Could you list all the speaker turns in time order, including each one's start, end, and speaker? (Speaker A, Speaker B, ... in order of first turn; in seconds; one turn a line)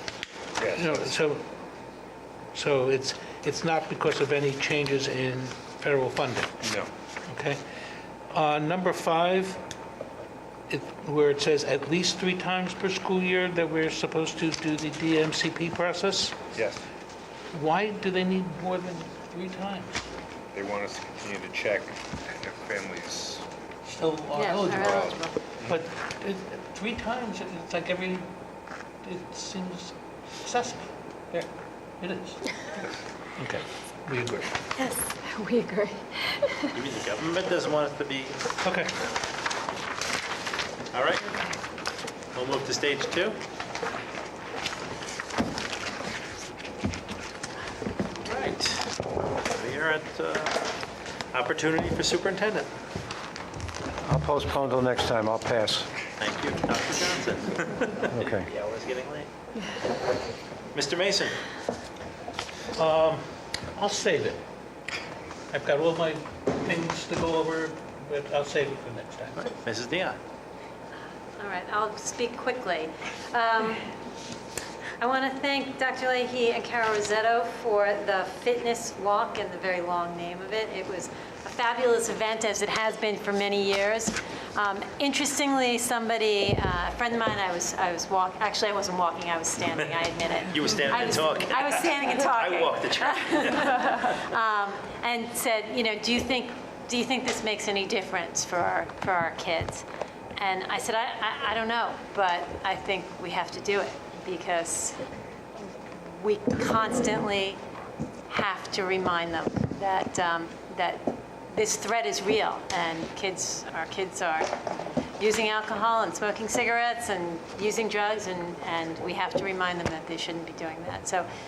Speaker A: 0.6-1.1
Speaker B: 0.7-1.4
Speaker B: 2.5-6.5
Speaker A: 6.6-6.9
Speaker B: 7.3-7.6
Speaker B: 8.3-9.6
Speaker B: 10.7-16.4
Speaker A: 16.5-16.8
Speaker B: 17.5-20.0
Speaker A: 20.5-23.4
Speaker B: 23.9-28.3
Speaker C: 24.3-25.4
Speaker A: 24.7-25.8
Speaker B: 29.0-30.9
Speaker B: 32.0-32.5
Speaker B: 33.4-34.5
Speaker D: 34.8-36.8
Speaker E: 36.7-38.4
Speaker B: 38.6-38.9
Speaker E: 40.9-41.3
Speaker E: 42.3-43.4
Speaker E: 48.2-50.8
Speaker E: 51.3-52.7
Speaker F: 54.0-55.9
Speaker E: 56.2-59.3
Speaker F: 58.1-58.5
Speaker E: 60.7-61.4
Speaker B: 62.7-64.4
Speaker B: 65.5-69.5
Speaker E: 69.4-70.2
Speaker C: 71.4-73.9
Speaker C: 75.0-99.8
Speaker E: 90.5-93.6
Speaker C: 100.4-105.0
Speaker C: 106.0-107.6
Speaker C: 108.3-114.6
Speaker C: 115.2-121.3